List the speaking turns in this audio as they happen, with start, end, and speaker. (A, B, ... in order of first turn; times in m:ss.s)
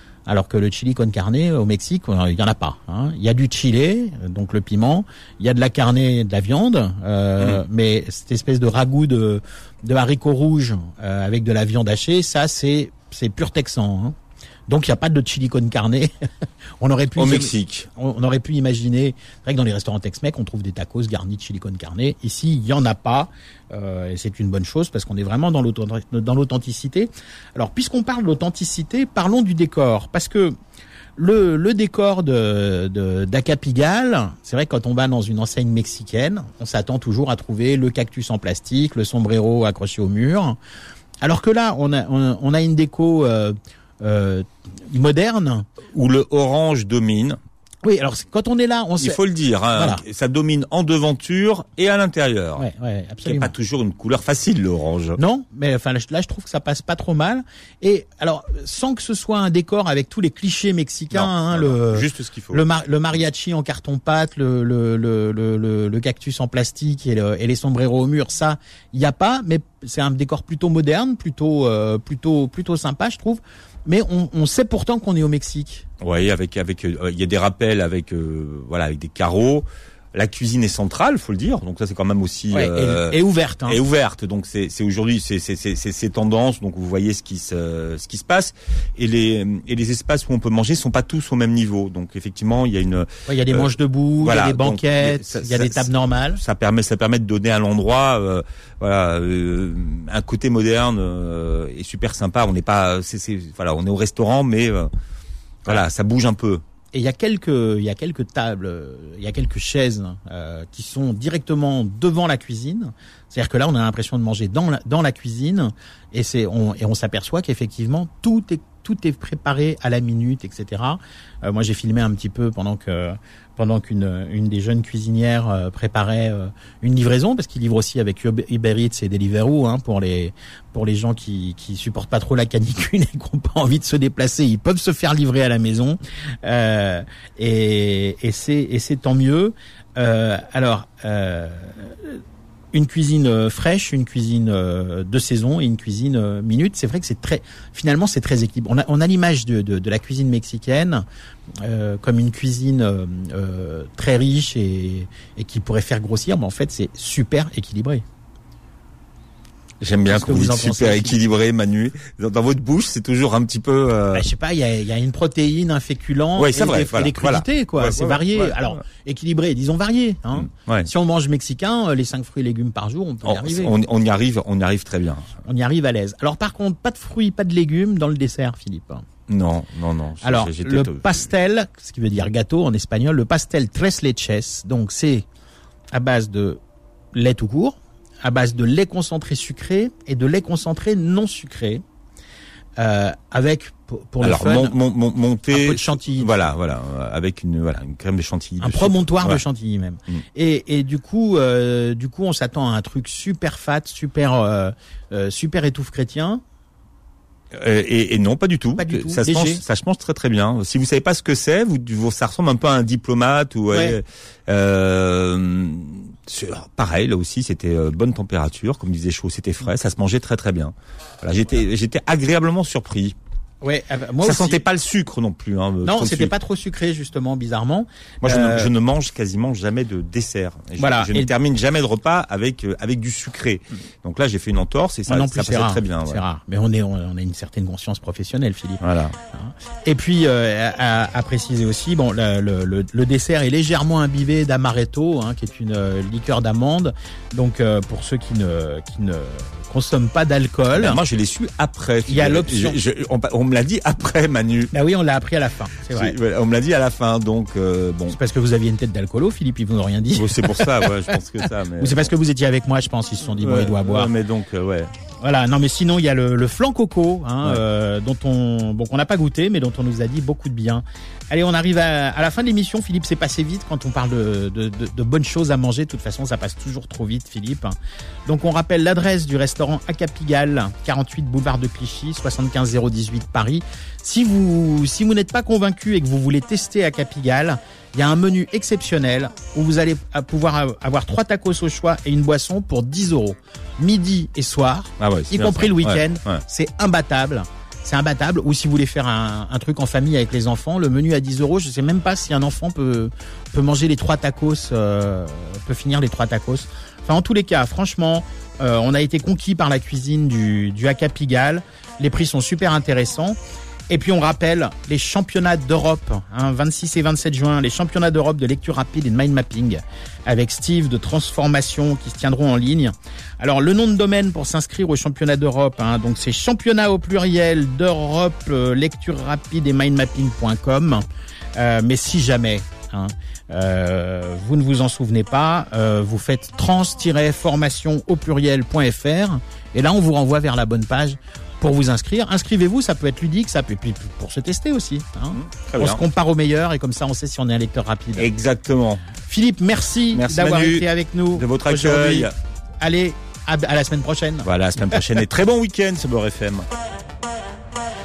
0:00.3-0:14.2 A
0:14.7-0:16.1 A
0:16.8-0:30.6 A
0:17.2-0:17.9 B
0:31.2-0:40.6 A
0:41.2-0:45.7 A
0:45.9-0:47.4 B
0:47.8-0:49.2 A
0:49.0-0:52.7 B
0:49.7-0:50.0 A
0:52.6-0:53.5 A
0:53.2-0:55.2 B
0:55.2-1:15.9 A
1:01.1-1:02.6 B
1:16.0-1:44.9 B
1:22.5-1:23.8 A
1:33.3-1:36.4 A
1:45.7-1:46.6 B
1:46.9-2:22.2 A
2:22.7-2:31.0 A
2:31.6-2:38.0 A
2:39.8-2:44.3 B
2:40.1-2:41.2 A
2:44.1-2:53.8 A
2:46.4-2:48.8 B
2:50.3-2:50.9 B
2:53.2-2:55.4 B
2:55.4-2:59.0 A
2:59.3-3:01.2 B
3:00.2-3:05.2 A
3:05.9-3:06.6 A
3:07.1-3:11.8 A
3:12.8-3:14.8 A
3:14.2-3:19.4 B
3:15.5-3:16.5 A
3:18.6-3:26.4 A
3:27.5-3:43.2 B
3:28.8-3:29.6 A
3:33.7-3:34.0 A
3:43.6-3:44.6 A
3:44.2-3:46.3 B
3:45.8-3:48.7 A
3:48.2-3:56.2 B
3:50.8-3:51.3 A
3:55.1-4:11.0 A
3:58.8-3:59.2 B
4:10.7-4:14.7 B
4:12.1-4:12.8 A
4:14.7-4:16.2 A
4:15.9-4:18.2 B
4:18.1-4:20.9 A
4:20.1-4:22.1 B
4:21.8-4:24.1 A
4:23.3-4:24.9 B
4:25.2-5:13.4 A
4:55.0-4:56.4 B
5:13.9-5:48.3 A
5:45.3-5:46.0 B
5:48.2-5:49.0 B
5:49.3-5:55.0 A
5:50.1-5:52.3 B
5:54.4-5:56.7 B